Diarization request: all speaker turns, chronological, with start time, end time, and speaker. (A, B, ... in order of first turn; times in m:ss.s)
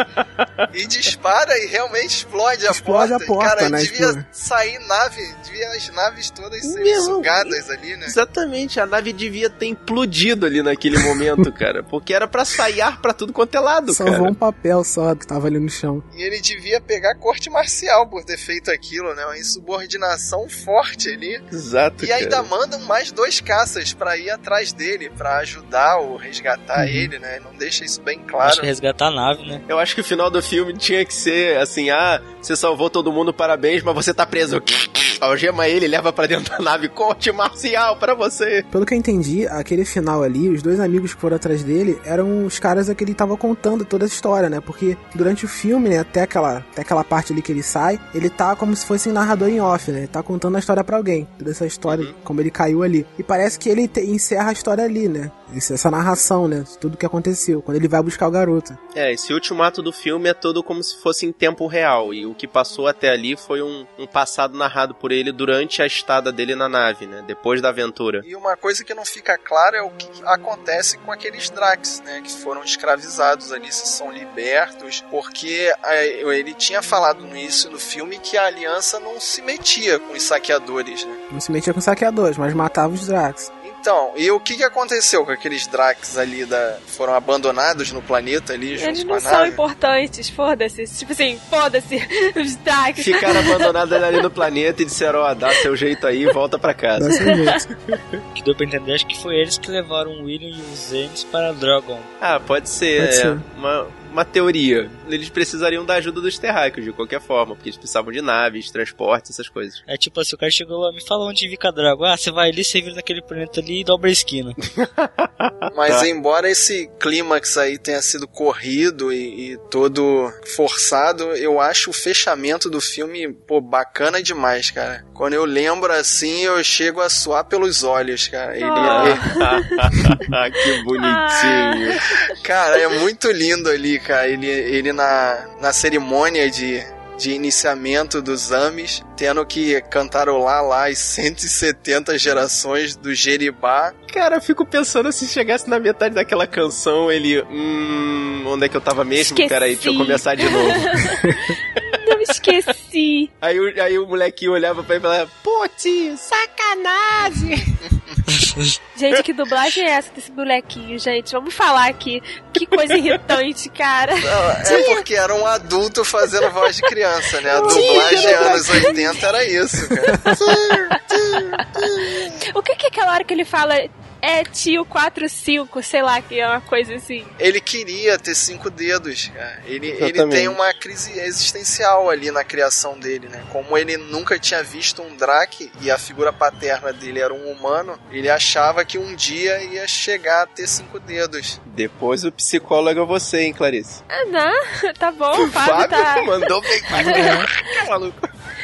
0:00.7-0:08.1 A
0:02.7-0:04.2 B
0:06.6-0:14.3 C
0:13.9-0:16.0 B
0:16.1-0:21.4 A
0:21.5-0:22.5 C
0:22.0-0:28.7 A
0:26.8-0:27.1 B
0:28.4-0:29.6 D
0:29.7-0:38.6 C
0:38.7-0:58.8 B
0:51.9-0:52.2 C
0:58.9-1:08.2 C
1:08.2-1:21.2 A
1:21.3-1:23.5 B
1:23.6-1:29.6 A
1:28.8-1:33.7 E
1:33.0-1:37.3 C
1:37.0-1:37.6 B
1:38.3-1:42.1 D
1:42.2-1:49.8 C
1:43.0-1:43.4 B
1:49.9-1:54.6 D
1:54.7-1:56.1 C
1:55.7-2:09.3 A
2:08.6-2:09.4 E
2:08.8-2:12.0 C
2:11.0-2:12.2 E
2:12.4-2:23.9 A
2:24.1-2:31.1 C
2:29.2-2:33.3 E
2:33.4-2:37.7 C
2:38.3-2:38.8 D
2:38.9-2:45.0 E
2:44.2-2:52.3 A
2:47.5-2:49.0 E
2:47.6-2:48.6 C
2:50.0-2:50.3 E
2:52.4-2:57.3 E
2:57.4-3:11.6 A
3:00.0-3:00.6 C
3:11.7-3:14.0 C
3:14.1-3:16.3 E
3:15.6-3:18.3 C
3:16.9-3:17.4 E